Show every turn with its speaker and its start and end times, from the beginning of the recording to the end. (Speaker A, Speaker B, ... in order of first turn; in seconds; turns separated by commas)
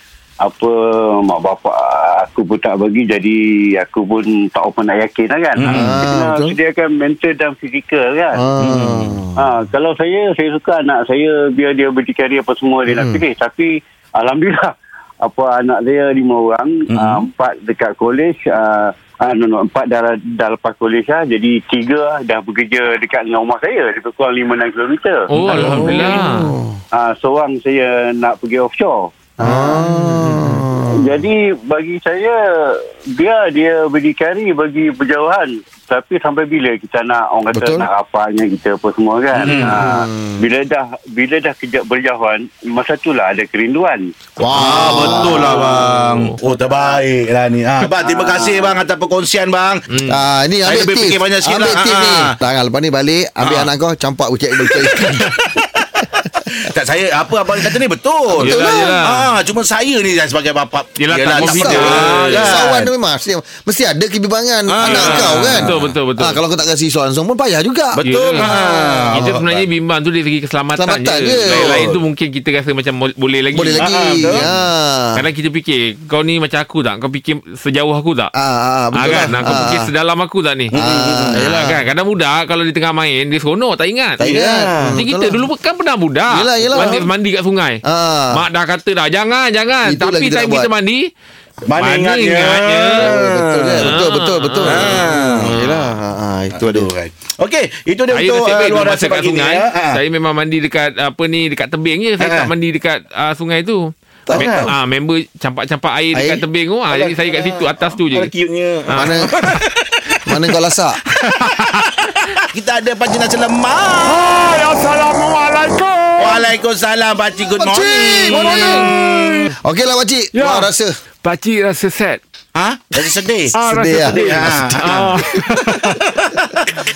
Speaker A: 0.4-8.7, Speaker B: 5.6-5.9, Speaker C: 5.7-6.5, Speaker C: 8.4-9.4, Speaker B: 8.6-9.2, Speaker A: 9.3-26.2, Speaker C: 12.9-13.2, Speaker B: 16.9-17.3, Speaker D: 25.3-26.5, Speaker C: 25.6-26.8, Speaker A: 26.9-29.9, Speaker C: 29.4-31.1, Speaker D: 29.9-30.6, Speaker A: 30.8-44.1, Speaker C: 37.5-37.9, Speaker C: 39.4-40.4, Speaker B: 39.4-39.8, Speaker C: 44.4-45.7, Speaker B: 44.5-49.9, Speaker D: 44.6-46.3, Speaker A: 44.9-45.6, Speaker A: 46.4-47.0, Speaker A: 47.9-48.8, Speaker D: 49.9-50.2, Speaker C: 50.1-55.3, Speaker B: 50.6-52.4, Speaker B: 53.4-53.7, Speaker B: 54.7-55.8, Speaker B: 56.6-62.9, Speaker C: 58.3-58.9, Speaker D: 58.4-59.3, Speaker D: 61.0-62.6, Speaker C: 61.4-68.5, Speaker B: 64.7-66.0, Speaker D: 64.8-66.4, Speaker B: 68.0-69.7, Speaker D: 68.0-74.5, Speaker C: 70.8-71.8, Speaker B: 71.5-72.0, Speaker C: 73.5-75.3, Speaker B: 73.8-74.5, Speaker D: 75.2-78.3, Speaker C: 78.3-79.9, Speaker D: 78.9-80.8, Speaker B: 80.7-81.4, Speaker C: 80.8-81.8, Speaker D: 81.4-84.3, Speaker B: 84.2-85.0, Speaker C: 84.2-85.5, Speaker D: 85.0-91.1, Speaker C: 86.3-87.1, Speaker C: 87.8-88.4, Speaker C: 89.8-90.7, Speaker B: 91.7-94.0, Speaker D: 91.8-93.1, Speaker C: 93.0-96.9, Speaker D: 93.8-95.7, Speaker B: 94.7-95.6, Speaker B: 96.5-100.0, Speaker D: 98.1-108.3, Speaker B: 102.2-102.5, Speaker C: 104.3-104.7, Speaker B: 104.3-104.7, Speaker C: 106.1-106.4, Speaker B: 106.9-107.4, Speaker B: 108.1-110.0, Speaker D: 108.9-109.3, Speaker C: 109.0-109.3, Speaker C: 110.3-111.0, Speaker D: 111.5-111.8, Speaker B: 112.5-114.2, Speaker D: 114.0-116.5, Speaker B: 116.2-119.5, Speaker C: 117.6-118.9, Speaker D: 118.3-118.9, Speaker C: 119.6-121.0, Speaker D: 120.3-120.7, Speaker D: 121.2-122.2, Speaker B: 122.5-123.5, Speaker D: 123.5-125.9, Speaker C: 123.6-124.8, Speaker B: 124.1-126.6